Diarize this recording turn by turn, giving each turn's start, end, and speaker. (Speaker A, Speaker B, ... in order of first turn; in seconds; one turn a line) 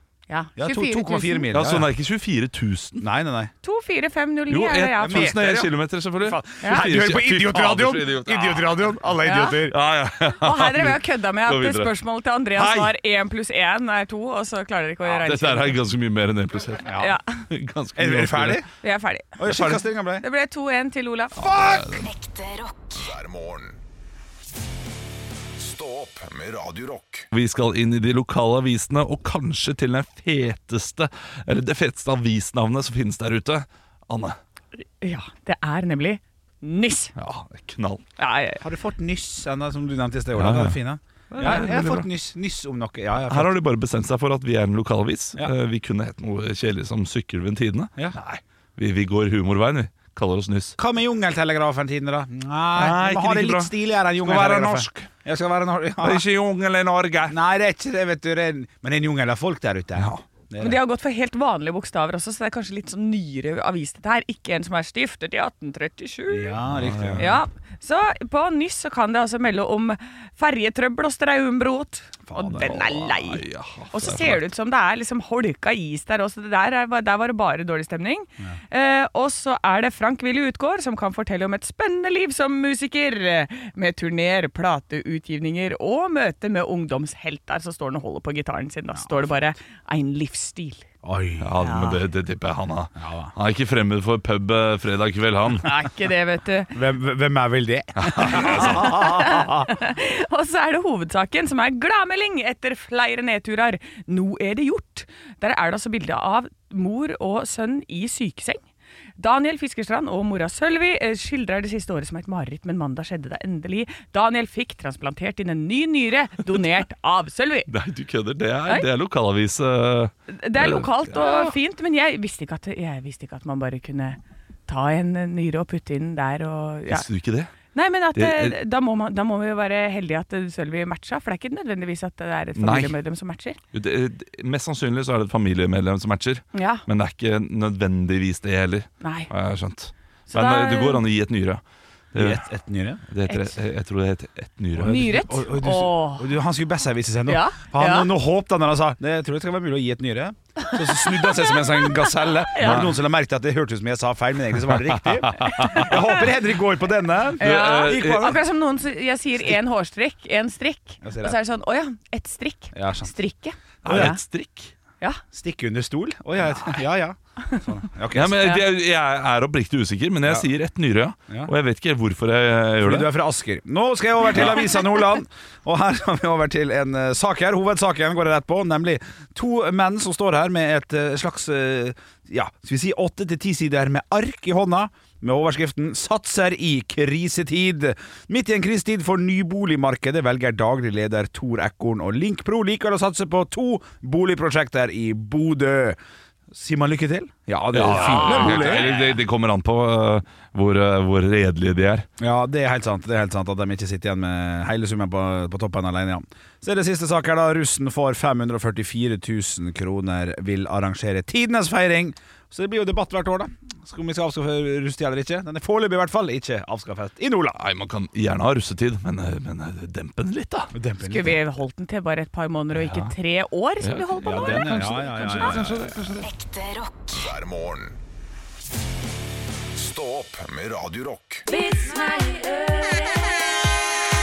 Speaker A: 0.3-1.5
Speaker B: 0.6-1.9
Speaker C: 1.5-3.0
Speaker B: 3.0-3.5
Speaker A: 3.6-5.3
Speaker C: 4.5-9.0
Speaker B: 5.0-9.8
Speaker A: 6.6-6.9
Speaker A: 9.2-9.6
Speaker C: 9.7-11.9
Speaker A: 10.4-15.8
Speaker C: 12.5-12.9
Speaker C: 15.1-16.9
Speaker B: 16.8-17.2
Speaker A: 17.0-17.2
Speaker C: 17.5-18.6
Speaker B: 18.0-18.7
Speaker A: 18.8-21.5
Speaker B: 19.4-20.2
Speaker B: 21.4-22.0
Speaker C: 21.5-22.1
Speaker D: 21.9-23.8
Speaker D: 25.6-27.3
Speaker C: 27.3-34.4
Speaker A: 35.0-37.1
Speaker C: 37.2-38.0
Speaker A: 38.2-38.6
Speaker B: 38.6-43.5
Speaker C: 40.4-40.8
Speaker C: 41.3-42.1
Speaker A: 41.4-41.7
Speaker C: 43.3-50.8
Speaker B: 50.8-56.2
Speaker C: 52.8-55.1
Speaker C: 56.0-57.4
Speaker B: 57.3-60.8
Speaker C: 60.0-60.2
Speaker A: 60.6-66.6
Speaker B: 66.3-67.4
Speaker C: 66.7-67.4
Speaker A: 67.2-90.9
Speaker B: 72.3-72.8
Speaker C: 72.5-74.5
Speaker B: 89.0-89.3
Speaker B: 91.0-91.5
Speaker C: 91.4-95.7
Speaker A: 91.6-92.0
Speaker B: 93.0-93.3
Speaker A: 95.6-96.8
Speaker B: 96.7-99.8
Speaker C: 98.0-98.9
Speaker A: 98.2-108.6
Speaker A: 109.2-117.7
Speaker C: 117.7-121.5
Speaker A: 120.3-127.0
Speaker C: 126.9-127.5
Speaker A: 127.7-133.6
Speaker C: 128.1-128.6
Speaker C: 132.6-132.9
Speaker C: 133.7-141.6
Speaker A: 136.6-136.8
Speaker A: 139.0-139.3
Speaker A: 140.3-141.0
Speaker C: 142.1-142.4
Speaker B: 142.2-143.0
Speaker C: 143.1-145.2
Speaker A: 143.3-143.6
Speaker B: 144.8-158.4
Speaker A: 144.8-146.3
Speaker A: 147.3-148.1
Speaker A: 150.6-152.9
Speaker C: 152.6-152.9
Speaker C: 154.8-155.9
Speaker A: 155.6-156.1
Speaker C: 157.4-158.4
Speaker A: 157.4-164.2
Speaker B: 161.0-161.4
Speaker B: 162.7-163.1
Speaker B: 163.8-164.2
Speaker C: 163.8-164.7
Speaker B: 165.3-168.6
Speaker C: 168.1-173.1
Speaker B: 172.8-196.0
Speaker B: 196.5-199.0
Speaker C: 197.7-202.1
Speaker A: 197.9-199.1
Speaker B: 202.2-217.6
Speaker C: 217.6-220.7
Speaker B: 220.7-221.4
Speaker A: 221.0-225.8
Speaker C: 223.8-226.3
Speaker B: 224.2-226.0
Speaker D: 226.2-228.0
Speaker D: 229.7-231.5
Speaker A: 231.5-233.3